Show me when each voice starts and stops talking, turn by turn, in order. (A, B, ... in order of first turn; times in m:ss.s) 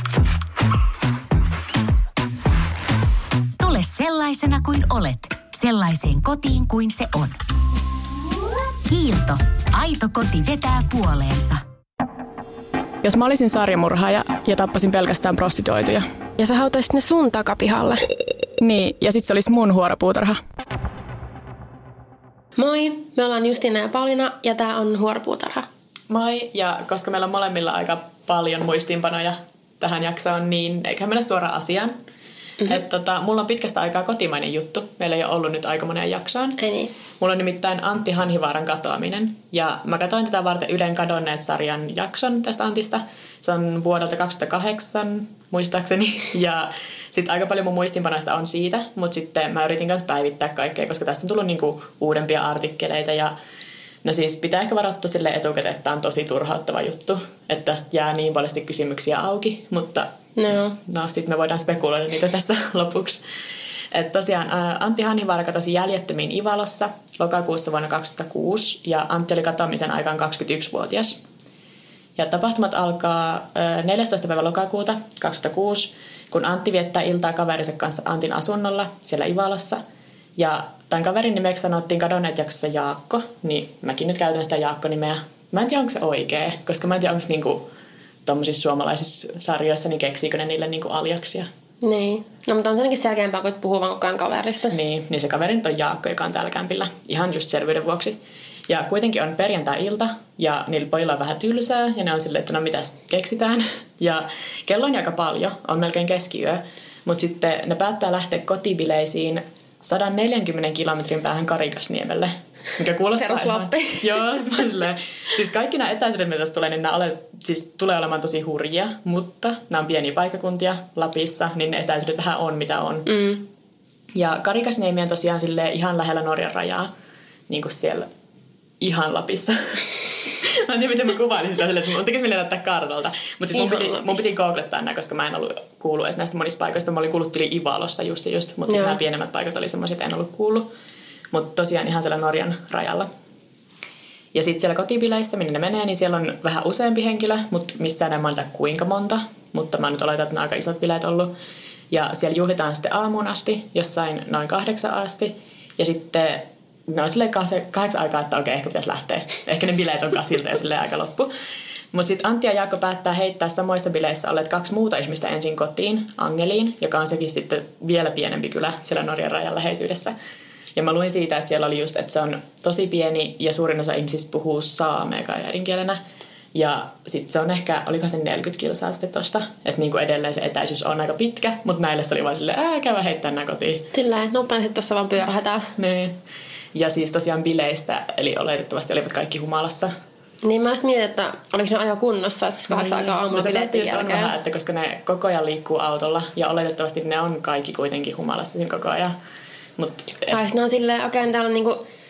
0:03.6-0:07.4 A
0:08.8-0:11.6 A
0:13.0-0:16.1 B
0:16.4-0:18.0 C
0:18.6-0:20.4 B
0:22.6-0:25.7 C
0:26.1-0:32.0 B
0:32.6-0:36.6 B
0:36.6-0:36.9 C
0:37.2-0:53.3 B
0:54.0-1:03.2 B
1:00.4-1:00.8 C
1:03.9-1:11.2 B
1:12.2-1:19.8 B
1:20.4-1:27.7 B
1:28.2-1:31.5 B
1:31.8-1:34.7 C
1:34.7-2:03.1 B
1:53.1-1:54.2 C
2:03.1-2:03.5 C
2:04.1-2:06.9 B
2:07.5-2:08.1 B
2:08.8-2:20.7 B
2:13.5-2:14.2 C
2:18.7-2:19.0 C
2:21.3-2:23.1 B
2:24.3-2:31.3 B
2:31.9-2:41.3 B
2:41.9-2:50.1 B
2:50.8-2:56.0 B
2:56.5-3:03.9 B
3:03.9-3:05.7 C
3:05.8-3:06.2 B
3:06.7-3:09.9 B
3:10.4-3:14.3 C
3:12.7-3:19.1 B
3:19.8-3:20.4 B
3:20.3-3:21.8 C